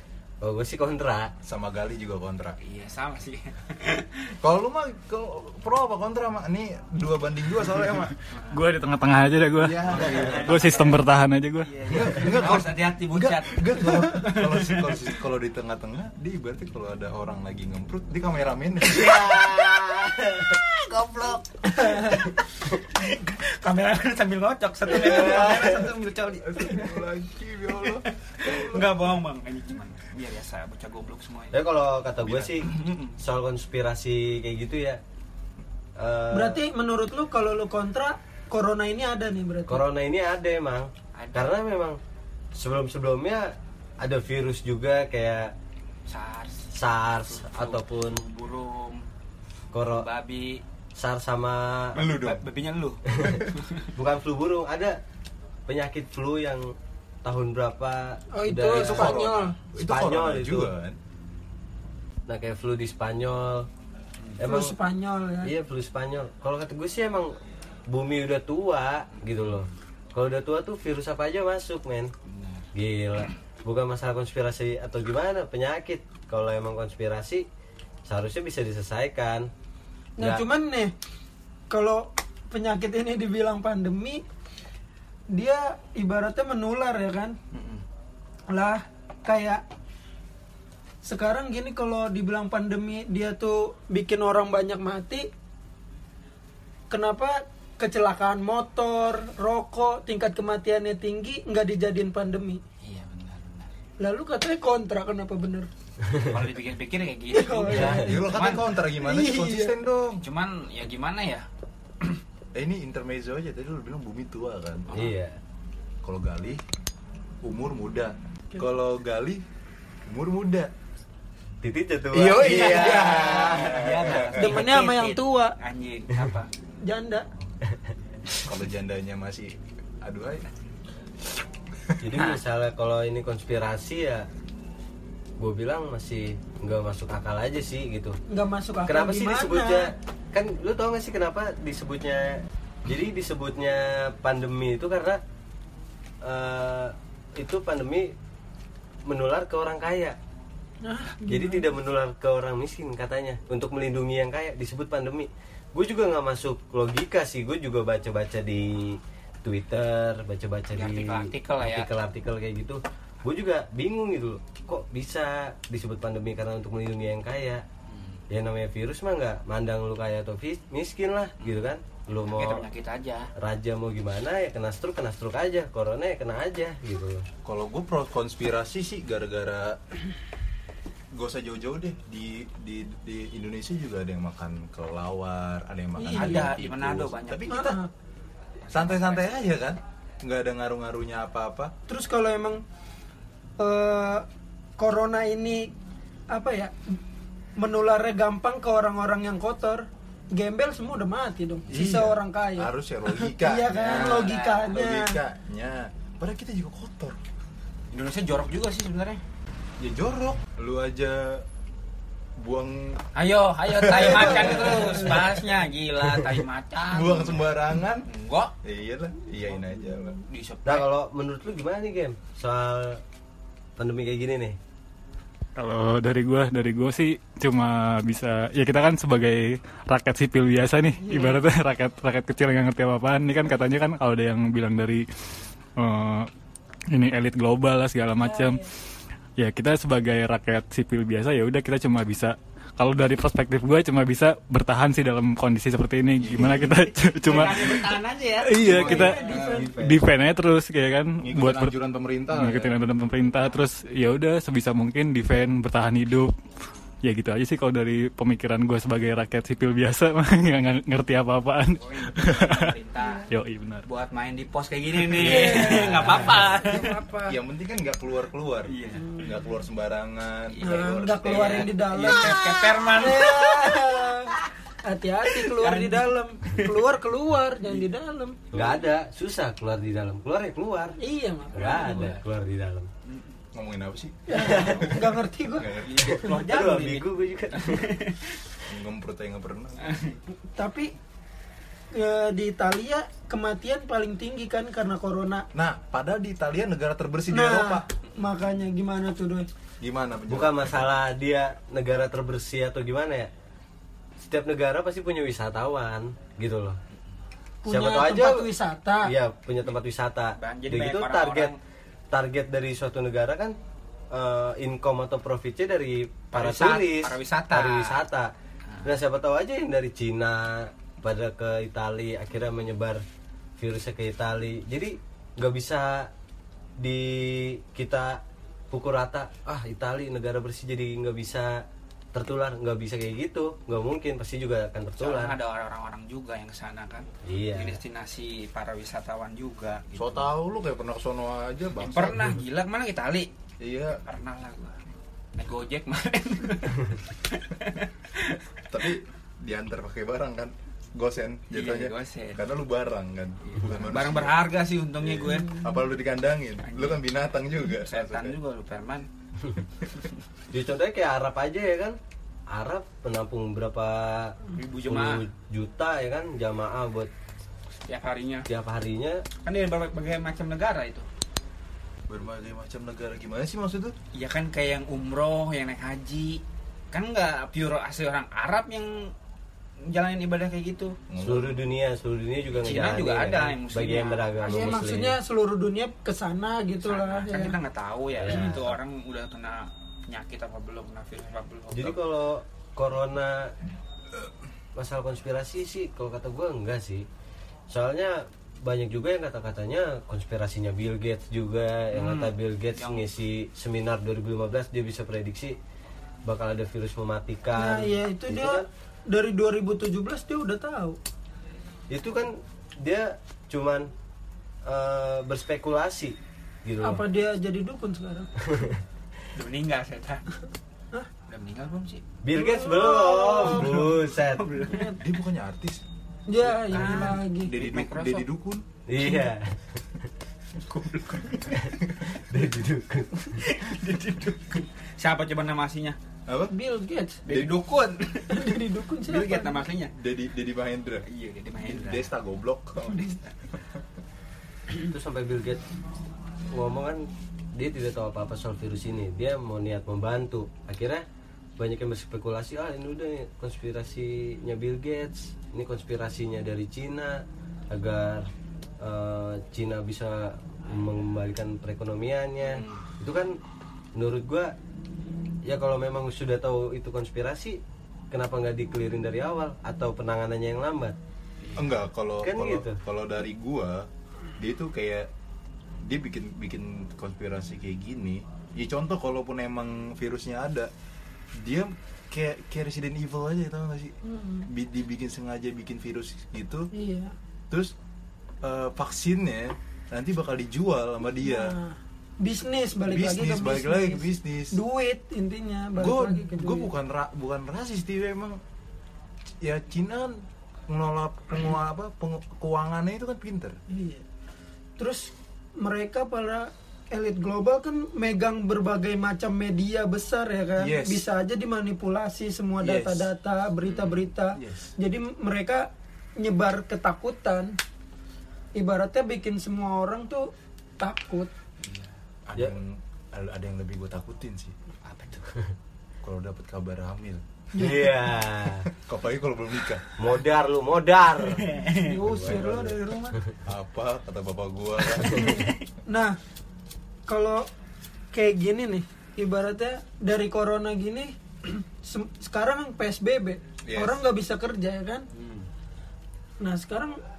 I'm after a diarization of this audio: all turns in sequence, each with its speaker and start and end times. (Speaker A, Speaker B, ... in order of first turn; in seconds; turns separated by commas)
Speaker A: 0.4-1.3, Speaker B: 1.4-2.6, Speaker C: 2.6-4.3, Speaker B: 4.4-8.2, Speaker C: 8.3-8.6, Speaker D: 8.5-11.9, Speaker B: 9.6-10.8, Speaker C: 9.9-11.1, Speaker C: 11.6-15.0, Speaker B: 11.9-19.6, Speaker A: 18.9-20.6, Speaker B: 20.5-21.6, Speaker C: 21.8-27.1, Speaker E: 21.9-22.2, Speaker B: 24.9-25.9, Speaker B: 26.4-29.0, Speaker C: 27.8-31.6, Speaker A: 31.5-35.0, Speaker C: 32.2-33.2, Speaker A: 36.0-36.6, Speaker E: 36.3-39.8, Speaker A: 39.7-42.0, Speaker C: 41.1-41.6, Speaker A: 42.5-45.5, Speaker C: 46.1-49.0, Speaker A: 46.7-48.2, Speaker A: 49.7-50.1, Speaker C: 49.8-50.6, Speaker A: 50.9-52.0, Speaker C: 51.9-53.9, Speaker B: 52.0-52.5, Speaker A: 53.1-53.4, Speaker A: 53.9-55.0, Speaker A: 55.7-60.7, Speaker E: 58.3-59.6, Speaker B: 58.7-61.0, Speaker A: 62.3-63.7, Speaker A: 64.4-64.8, Speaker E: 64.4-65.5, Speaker A: 65.4-67.3, Speaker A: 67.9-72.1, Speaker C: 72.3-72.7, Speaker A: 72.7-77.5, Speaker A: 78.0-79.5, Speaker E: 80.2-80.9, Speaker A: 80.2-80.4, Speaker E: 81.7-84.2, Speaker E: 85.3-87.4, Speaker C: 87.5-87.8, Speaker E: 88.5-89.6, Speaker E: 91.0-95.3, Speaker E: 96.9-102.6, Speaker C: 102.8-103.7, Speaker E: 104.0-105.7, Speaker C: 106.1-108.8, Speaker E: 107.3-108.2, Speaker A: 107.7-108.1, Speaker B: 107.8-110.2, Speaker E: 108.9-109.8, Speaker C: 110.2-111.5, Speaker B: 112.5-114.9, Speaker C: 114.9-115.2, Speaker A: 114.9-115.4, Speaker B: 116.0-116.6, Speaker B: 117.4-119.4, Speaker B: 120.1-120.7, Speaker A: 121.6-123.9, Speaker B: 122.1-124.5, Speaker C: 122.4-126.5, Speaker E: 124.4-125.5, Speaker E: 126.8-127.3, Speaker B: 128.4-130.4, Speaker A: 132.0-134.3, Speaker A: 135.4-138.2, Speaker E: 138.3-139.9, Speaker A: 138.8-145.2, Speaker A: 146.2-148.2, Speaker A: 149.0-150.2, Speaker E: 150.8-151.7, Speaker A: 151.3-167.6, Speaker C: 160.7-161.9, Speaker C: 167.9-168.2, Speaker A: 168.3-172.7, Speaker C: 172.2-173.3, Speaker A: 173.3-177.3, Speaker B: 177.4-179.8, Speaker B: 181.1-187.7, Speaker E: 186.0-186.5, Speaker C: 186.1-187.8, Speaker E: 187.5-187.9, Speaker C: 188.6-189.6, Speaker B: 188.7-191.7, Speaker E: 191.9-192.6, Speaker E: 193.6-194.2, Speaker E: 194.8-195.7, Speaker E: 196.3-196.9, Speaker E: 197.6-205.2, Speaker B: 201.7-207.2, Speaker C: 203.8-204.8, Speaker C: 207.9-209.2, Speaker B: 209.8-211.4, Speaker B: 212.4-213.0, Speaker C: 213.1-218.5, Speaker B: 213.7-215.4, Speaker B: 216.8-218.1, Speaker B: 218.6-220.2, Speaker C: 220.2-220.9, Speaker A: 220.6-223.0, Speaker A: 223.8-224.6, Speaker D: 225.6-235.1, Speaker E: 231.0-231.4, Speaker D: 235.8-236.3, Speaker D: 236.9-238.7, Speaker E: 238.2-238.7, Speaker D: 239.4-251.8, Speaker B: 246.2-247.7, Speaker C: 246.5-249.7, Speaker B: 248.6-250.0, Speaker E: 248.8-249.8, Speaker B: 251.2-252.7, Speaker D: 252.3-256.3, Speaker D: 257.0-262.7, Speaker C: 261.8-263.3, Speaker E: 263.0-263.3, Speaker D: 263.3-263.8, Speaker C: 263.8-267.0, Speaker E: 265.1-267.4, Speaker B: 267.3-272.1, Speaker C: 268.7-269.2, Speaker C: 270.5-274.3, Speaker E: 270.6-278.5, Speaker C: 275.3-276.8, Speaker A: 278.5-281.0, Speaker E: 281.0-282.1, Speaker A: 281.5-282.9, Speaker C: 281.5-282.2, Speaker C: 283.1-283.4, Speaker B: 283.5-286.2, Speaker E: 284.3-285.7, Speaker A: 284.3-284.8, Speaker C: 285.8-288.4, Speaker A: 286.0-287.9, Speaker B: 288.7-289.9, Speaker C: 289.8-290.2, Speaker E: 290.5-290.9, Speaker E: 291.9-295.5, Speaker B: 295.5-297.8, Speaker E: 297.3-299.5, Speaker B: 299.8-300.9, Speaker A: 300.3-303.3, Speaker A: 304.2-306.8, Speaker E: 307.6-309.1, Speaker A: 307.7-308.5, Speaker A: 309.0-311.5, Speaker C: 310.4-311.6, Speaker A: 312.1-313.6, Speaker A: 314.1-318.3, Speaker C: 316.3-318.0, Speaker A: 318.8-323.0, Speaker A: 323.6-326.1, Speaker A: 326.8-335.4, Speaker C: 335.0-340.3, Speaker A: 337.2-337.8, Speaker B: 339.9-342.3, Speaker C: 341.8-343.3, Speaker B: 343.6-344.0, Speaker C: 344.0-344.8, Speaker C: 345.4-348.6, Speaker B: 348.7-354.4, Speaker C: 351.5-352.4, Speaker C: 353.4-355.6, Speaker B: 355.0-358.3, Speaker C: 356.6-357.0, Speaker C: 357.7-359.1, Speaker A: 360.5-362.0, Speaker A: 362.5-367.1, Speaker C: 364.5-365.2, Speaker C: 367.9-368.5, Speaker A: 368.5-369.2, Speaker C: 369.4-371.1, Speaker B: 372.1-373.9, Speaker C: 374.1-379.1, Speaker C: 379.8-381.0, Speaker B: 381.1-381.6, Speaker A: 381.2-385.2, Speaker C: 382.5-384.8, Speaker E: 384.4-387.6, Speaker C: 386.8-392.0, Speaker A: 388.2-388.6, Speaker B: 388.2-388.6, Speaker A: 391.7-393.5, Speaker A: 394.7-397.1, Speaker A: 397.7-405.6, Speaker C: 401.9-403.1, Speaker A: 406.2-408.7, Speaker E: 407.5-411.0, Speaker A: 411.9-413.9, Speaker A: 414.6-417.0, Speaker E: 416.8-418.3, Speaker A: 418.4-418.8, Speaker C: 419.3-420.2, Speaker C: 421.3-422.0, Speaker A: 422.2-424.4, Speaker E: 422.3-423.8, Speaker B: 423.4-424.0, Speaker C: 423.5-425.0, Speaker E: 424.6-425.0, Speaker B: 424.9-425.8, Speaker E: 426.3-427.5, Speaker C: 426.6-428.3, Speaker B: 426.7-428.6, Speaker A: 428.9-429.8, Speaker C: 430.6-431.8, Speaker A: 431.6-433.4, Speaker C: 433.3-436.0, Speaker B: 436.3-436.5, Speaker E: 436.5-437.2, Speaker C: 437.2-439.9, Speaker B: 437.3-437.6, Speaker E: 438.3-439.6, Speaker B: 439.9-441.0, Speaker C: 441.0-442.1, Speaker B: 441.6-443.8, Speaker C: 442.9-443.3, Speaker A: 444.8-445.6, Speaker A: 446.5-451.0, Speaker A: 451.6-463.4, Speaker C: 462.4-462.8, Speaker A: 463.9-464.5, Speaker A: 465.4-467.6, Speaker A: 468.1-470.9, Speaker C: 471.4-471.8, Speaker B: 471.5-475.1, Speaker A: 472.2-472.8, Speaker B: 475.8-480.7, Speaker B: 481.4-483.9, Speaker E: 484.0-484.5, Speaker B: 484.5-486.7, Speaker E: 486.7-487.1, Speaker B: 488.4-491.6, Speaker E: 491.2-496.7, Speaker B: 492.8-494.6, Speaker B: 495.8-498.4, Speaker B: 499.4-503.6, Speaker E: 503.7-504.0, Speaker E: 504.8-517.5, Speaker B: 510.6-511.0, Speaker B: 512.6-513.1, Speaker B: 514.4-514.7, Speaker E: 518.5-521.3, Speaker C: 521.6-521.9, Speaker B: 522.3-524.5, Speaker C: 524.8-525.3, Speaker B: 526.0-527.2, Speaker E: 527.5-528.0, Speaker A: 527.5-528.7, Speaker B: 528.7-530.0, Speaker A: 529.9-532.8, Speaker C: 531.3-532.0, Speaker E: 531.7-533.3, Speaker B: 533.5-535.5, Speaker E: 535.1-536.2, Speaker C: 535.1-535.6, Speaker E: 537.1-537.5, Speaker E: 538.1-545.0, Speaker B: 543.7-544.0, Speaker C: 545.1-545.5, Speaker E: 546.4-547.0